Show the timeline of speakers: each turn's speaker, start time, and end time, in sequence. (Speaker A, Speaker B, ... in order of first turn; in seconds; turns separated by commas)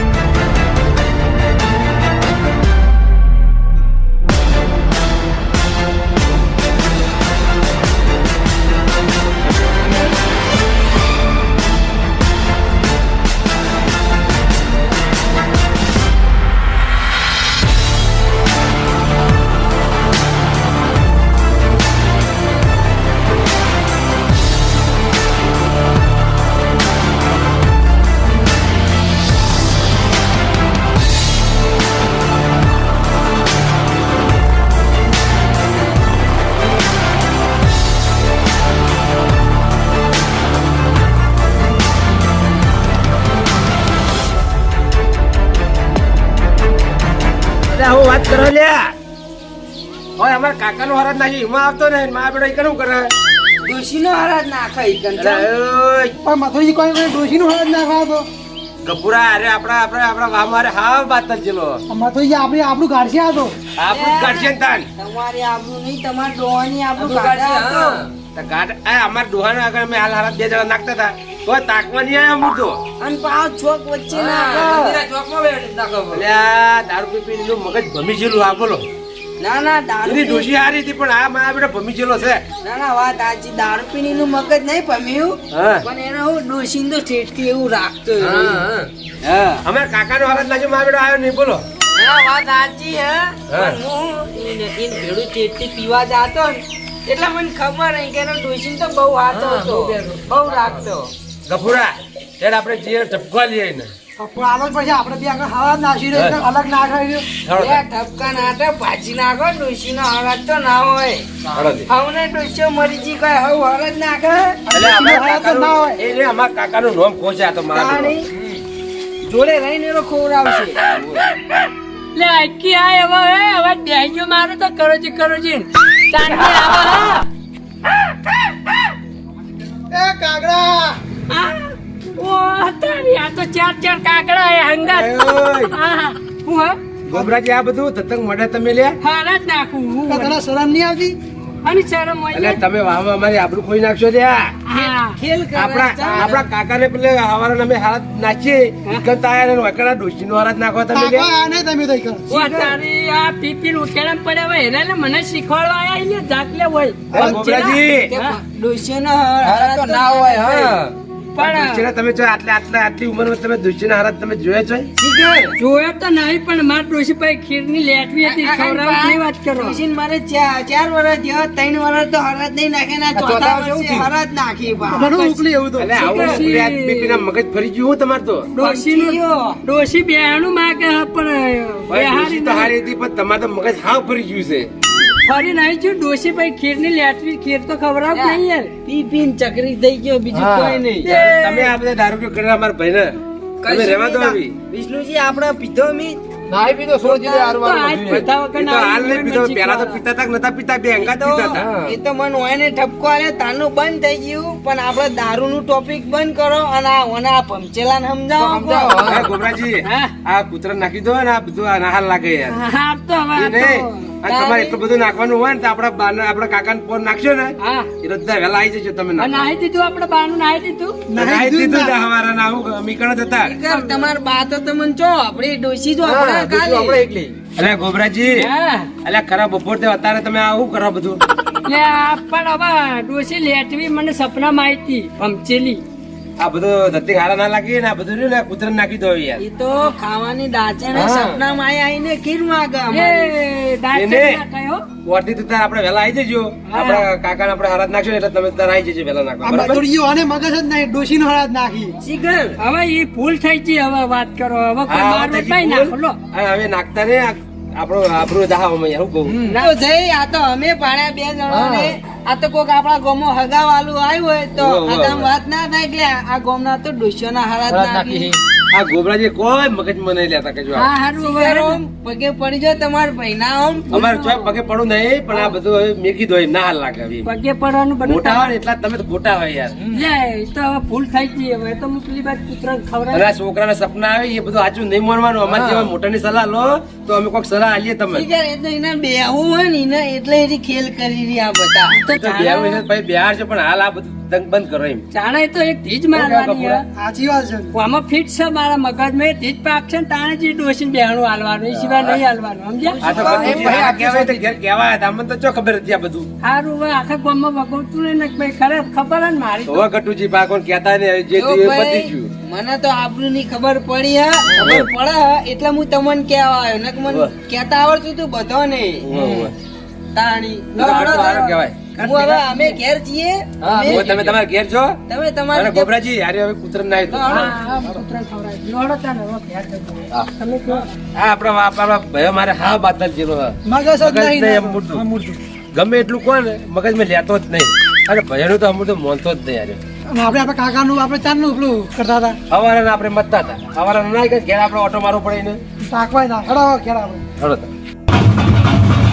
Speaker A: 47.7-48.9, Speaker A: 50.2-53.1, Speaker B: 53.6-55.5, Speaker A: 55.2-56.1, Speaker C: 56.2-58.3, Speaker A: 58.8-61.8, Speaker C: 61.9-63.5, Speaker A: 63.8-64.9, Speaker B: 63.9-68.0, Speaker D: 67.0-68.1, Speaker A: 68.3-72.8, Speaker B: 73.0-75.0, Speaker D: 74.1-76.2, Speaker A: 76.1-78.8, Speaker B: 79.4-80.5, Speaker A: 80.0-82.4, Speaker B: 82.6-88.6, Speaker A: 85.5-85.8, Speaker D: 88.2-88.9, Speaker B: 89.2-89.6, Speaker A: 89.6-91.6, Speaker B: 92.0-101.1, Speaker A: 93.5-93.8, Speaker D: 99.3-100.8, Speaker A: 101.5-103.9, Speaker C: 104.2-107.3, Speaker A: 106.1-106.4, Speaker A: 107.4-107.8, Speaker B: 107.5-111.2, Speaker A: 111.5-111.9, Speaker B: 111.9-114.6, Speaker C: 114.7-116.0, Speaker A: 114.7-118.2, Speaker B: 117.7-118.3, Speaker B: 119.2-120.8, Speaker A: 120.9-121.2, Speaker E: 122.2-127.3, Speaker C: 129.9-131.0, Speaker E: 131.3-135.1, Speaker A: 134.9-135.7, Speaker E: 135.7-136.8, Speaker A: 137.1-139.0, Speaker E: 139.0-140.4, Speaker C: 140.1-141.2, Speaker E: 141.6-142.6, Speaker A: 142.3-144.5, Speaker E: 144.7-145.2, Speaker B: 144.7-146.5, Speaker A: 145.5-151.3, Speaker C: 150.9-152.3, Speaker E: 152.3-158.4, Speaker B: 152.3-152.7, Speaker C: 157.1-157.5, Speaker A: 157.1-158.1, Speaker B: 158.1-160.8, Speaker D: 159.4-161.0, Speaker E: 161.3-161.8, Speaker A: 161.4-164.9, Speaker B: 165.0-165.6, Speaker E: 165.6-169.8, Speaker B: 168.2-175.2, Speaker D: 173.1-174.1, Speaker C: 174.9-175.8, Speaker E: 175.1-175.4, Speaker A: 175.7-178.5, Speaker E: 175.9-177.2, Speaker E: 178.5-182.7, Speaker B: 178.6-179.6, Speaker A: 181.9-184.7, Speaker E: 185.0-188.7, Speaker B: 188.1-191.1, Speaker E: 191.0-191.7, Speaker A: 191.0-193.2, Speaker B: 193.6-196.2, Speaker A: 193.7-194.6, Speaker D: 196.5-198.2, Speaker B: 197.0-197.6, Speaker E: 197.5-200.0, Speaker A: 197.8-201.7, Speaker B: 201.0-209.2, Speaker D: 201.5-201.9, Speaker D: 208.4-209.3, Speaker A: 209.0-212.6, Speaker E: 209.8-210.1, Speaker E: 212.5-214.1, Speaker A: 213.4-219.5, Speaker B: 214.3-214.8, Speaker E: 217.6-217.9, Speaker E: 219.2-221.0, Speaker C: 221.1-221.9, Speaker A: 221.2-223.6, Speaker B: 223.4-227.0, Speaker E: 223.6-224.1, Speaker D: 226.0-227.4, Speaker A: 227.6-228.5, Speaker E: 228.3-228.9, Speaker A: 229.0-231.2, Speaker E: 231.7-235.8, Speaker A: 236.4-239.4, Speaker B: 239.4-243.3, Speaker A: 240.9-241.4, Speaker E: 242.9-244.8, Speaker A: 243.9-244.4, Speaker A: 245.1-249.8, Speaker E: 246.7-247.1, Speaker C: 249.4-251.9, Speaker B: 252.0-252.6, Speaker E: 252.6-256.2, Speaker A: 254.9-259.4, Speaker B: 259.5-268.3, Speaker D: 261.5-261.9, Speaker A: 264.6-265.3, Speaker D: 267.7-268.4, Speaker A: 268.7-270.9, Speaker E: 270.7-271.8, Speaker B: 271.2-274.0, Speaker A: 273.9-277.3, Speaker E: 273.9-274.5, Speaker E: 277.2-278.5, Speaker A: 278.1-279.8, Speaker E: 279.9-283.3, Speaker A: 283.1-288.3, Speaker D: 285.5-285.9, Speaker B: 288.1-292.0, Speaker E: 291.9-292.8, Speaker A: 292.1-295.0, Speaker E: 295.1-296.8, Speaker A: 296.1-296.8, Speaker C: 297.0-297.7, Speaker E: 297.7-303.0, Speaker A: 301.7-302.2, Speaker B: 302.8-303.9, Speaker A: 303.0-306.3, Speaker D: 303.1-304.5, Speaker E: 306.4-309.9, Speaker A: 309.7-312.3, Speaker B: 311.4-319.5, Speaker A: 314.5-314.9, Speaker A: 319.0-319.5, Speaker B: 320.1-324.3, Speaker A: 320.8-321.9, Speaker E: 320.8-321.4, Speaker E: 322.0-322.8, Speaker A: 323.6-325.0, Speaker D: 323.9-324.4, Speaker B: 325.1-325.9, Speaker A: 325.5-327.4, Speaker B: 327.1-327.6, Speaker E: 327.3-330.9, Speaker A: 331.2-335.0, Speaker C: 333.7-335.4, Speaker A: 335.7-339.8, Speaker C: 340.1-342.4, Speaker A: 342.5-345.6, Speaker C: 345.9-347.2, Speaker A: 347.4-347.7